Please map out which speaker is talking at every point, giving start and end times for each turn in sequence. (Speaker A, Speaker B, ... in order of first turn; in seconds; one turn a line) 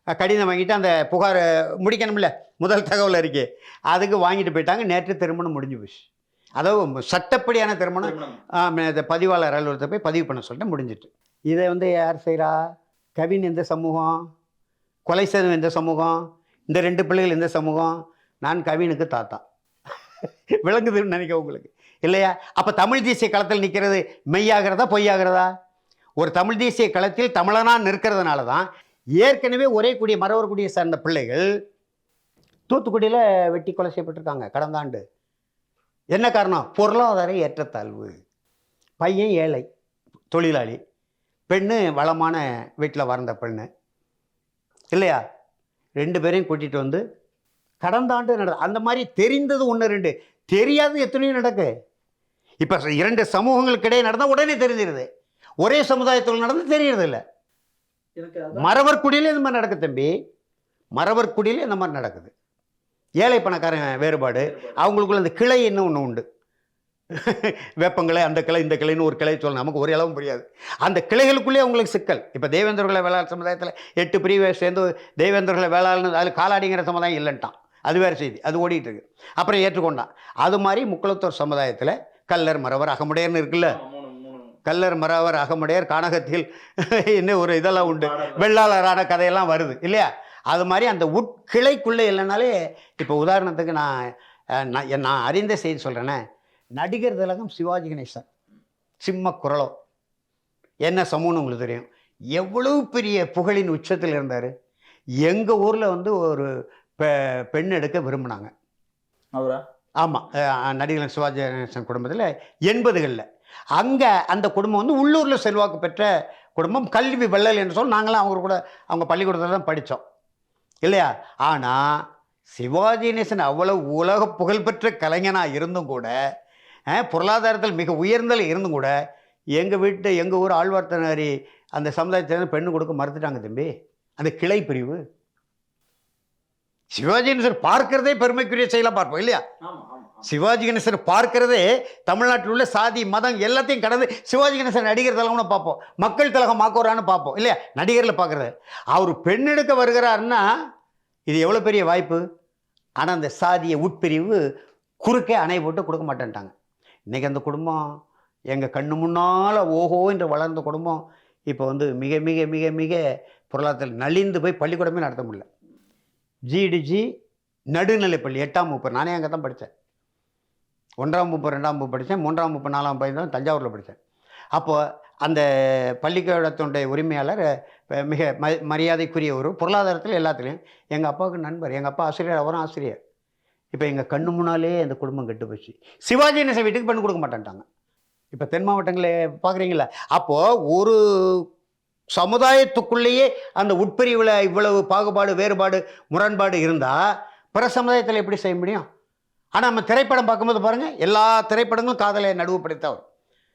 Speaker A: 0.2-6.0
Speaker A: 6.6-12.6
Speaker B: 8.0-8.4
Speaker A: 13.2-14.2
Speaker A: 15.1-16.2
Speaker A: 16.7-19.4
Speaker A: 20.6-25.5
Speaker A: 26.2-28.7
Speaker A: 29.2-31.5
Speaker A: 32.7-35.0
Speaker A: 36.1-38.1
Speaker A: 39.0-39.6
Speaker A: 40.3-40.8
Speaker A: 41.5-43.7
Speaker A: 44.9-45.2
Speaker A: 46.0-47.0
Speaker A: 47.8-51.7
Speaker A: 52.6-55.1
Speaker A: 55.6-57.2
Speaker B: 58.2-58.7
Speaker A: 58.5-60.1
Speaker A: 61.0-62.3
Speaker A: 63.2-66.2
Speaker B: 64.5-64.8
Speaker A: 67.1-83.8
Speaker B: 83.7-84.5
Speaker A: 84.7-96.2
Speaker B: 87.8-88.5
Speaker A: 96.8-98.2
Speaker A: 99.0-99.7
Speaker A: 100.8-104.5
Speaker A: 105.2-108.5
Speaker B: 109.3-109.6
Speaker A: 110.0-113.2
Speaker A: 113.8-120.0
Speaker A: 120.8-126.2
Speaker A: 126.9-128.9
Speaker A: 129.6-135.0
Speaker A: 136.9-139.4
Speaker B: 139.6-140.2
Speaker A: 140.2-150.4
Speaker A: 151.3-152.2
Speaker A: 153.0-154.4
Speaker A: 155.0-156.5
Speaker A: 157.1-157.8
Speaker A: 158.5-165.5
Speaker A: 166.5-167.1
Speaker A: 167.7-169.7
Speaker A: 171.0-174.0
Speaker A: 174.6-175.4
Speaker A: 176.0-183.0
Speaker A: 183.7-187.6
Speaker A: 188.3-191.4
Speaker A: 192.1-197.0
Speaker A: 197.5-198.9
Speaker A: 199.6-203.0